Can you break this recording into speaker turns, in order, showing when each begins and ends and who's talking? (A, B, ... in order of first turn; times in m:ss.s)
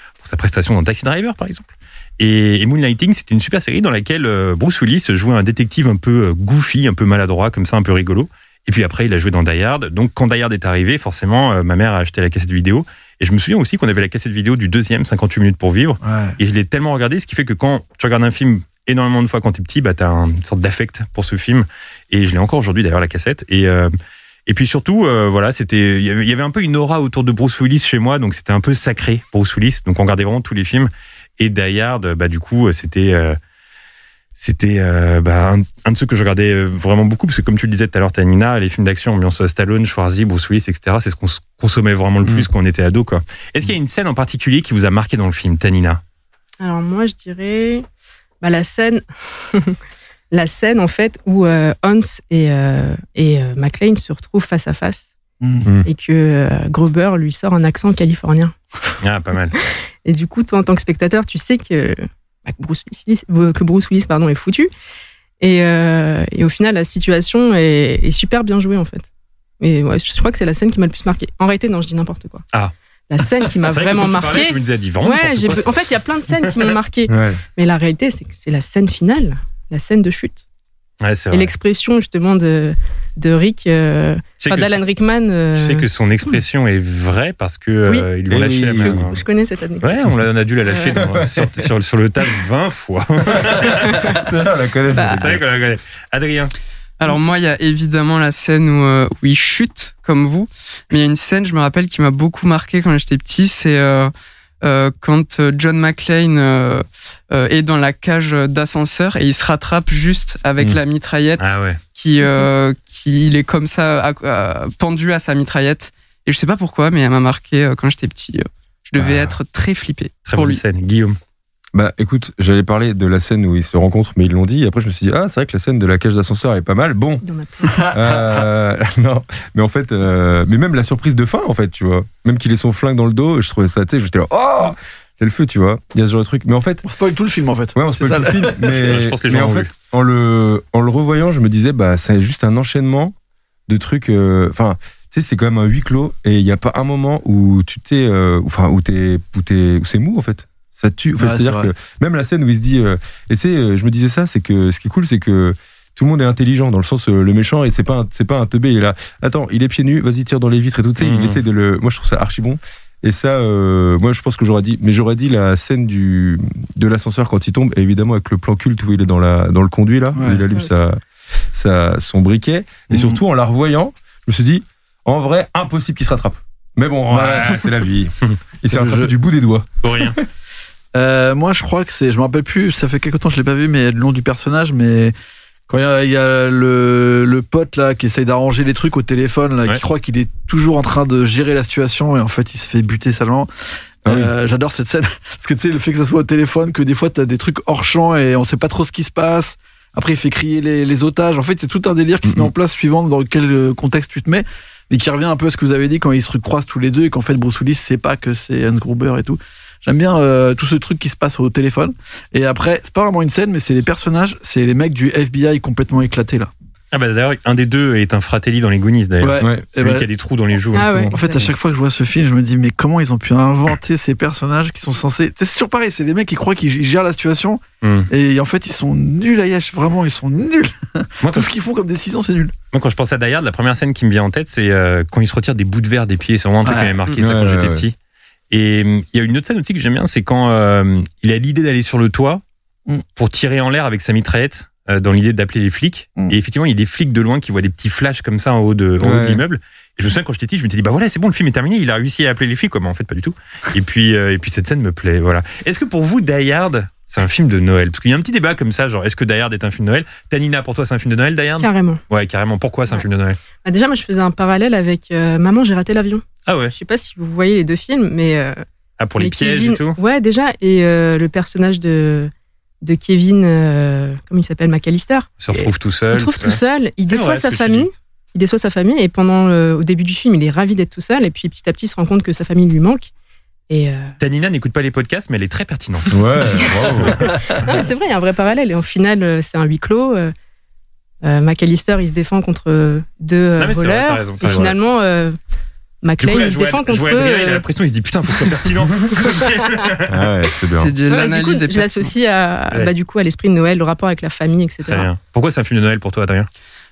0:00.2-0:23.9 A
0:16.0-0:16.4 B
0:24.5-0:33.4 A
0:34.4-0:46.0 A
0:46.6-0:47.9 C
0:48.4-0:49.8 C
0:50.3-0:55.1 C
0:55.4-0:55.7 B
0:55.8-0:58.6 C
0:59.0-0:59.5 A
1:00.0-1:04.7 C
1:05.4-1:09.1 C
1:09.6-1:12.4 C
1:13.1-1:20.4 C
1:13.6-1:15.6 A
1:17.1-1:17.4 D
1:21.0-1:21.5 A
1:21.3-1:25.8 C
1:24.4-1:24.8 A
1:25.6-1:29.2 A
1:28.3-1:29.1 D
1:28.8-1:29.9 C
1:29.8-1:34.1 A
1:30.7-1:31.0 C
1:31.0-1:31.5 D
1:33.4-1:35.4 D
1:34.9-1:35.2 C
1:35.2-1:36.5 A
1:37.0-1:44.1 E
1:44.6-2:00.6 E
1:51.4-1:51.8 A
1:59.0-1:59.3 A
2:00.3-2:01.2 A
2:01.7-2:07.2 D
2:07.2-2:07.8 C
2:07.7-2:08.4 B
2:07.9-2:16.8 D
2:16.8-2:18.7 B
2:17.8-2:23.1 D
2:18.7-2:19.7 A
2:23.7-2:51.0 D
2:31.2-2:31.7 B
2:41.0-2:41.4 A
2:50.2-2:50.4 B
2:51.5-3:00.2 D
2:52.9-2:53.2 B
2:57.2-2:57.5 B
2:57.2-2:57.6 A
2:58.7-2:59.1 B
2:59.8-3:00.2 A
3:00.9-3:05.1 B
3:05.7-3:13.5 B
3:14.0-3:36.5 B
3:14.1-3:14.3 D
3:22.2-3:22.5 D
3:36.9-3:41.1 A
3:39.2-3:40.1 B
3:40.7-3:41.4 C
3:41.1-3:52.5 B
3:47.8-3:48.1 A
3:51.2-3:51.5 A
3:52.7-3:58.0 A
3:56.6-3:57.0 B
3:57.2-3:57.8 D
3:58.5-4:02.4 A
4:03.2-4:23.4 A
4:09.0-4:09.4 D
4:21.6-4:22.0 C
4:23.6-4:28.6 C
4:26.5-4:26.7 A
4:29.0-4:30.0 A
4:29.2-4:32.3 C
4:32.8-4:43.1 C
4:35.4-4:37.9 A
4:43.7-4:44.2 C
4:44.2-4:47.1 A
4:46.1-4:47.3 D
4:47.6-4:50.3 C
4:51.2-4:55.4 C
4:53.6-4:54.8 A
4:56.0-4:57.6 C
4:56.2-5:00.2 A
5:00.1-5:00.9 D
5:00.7-5:02.1 E
5:01.1-5:05.1 C
5:04.8-5:06.5 A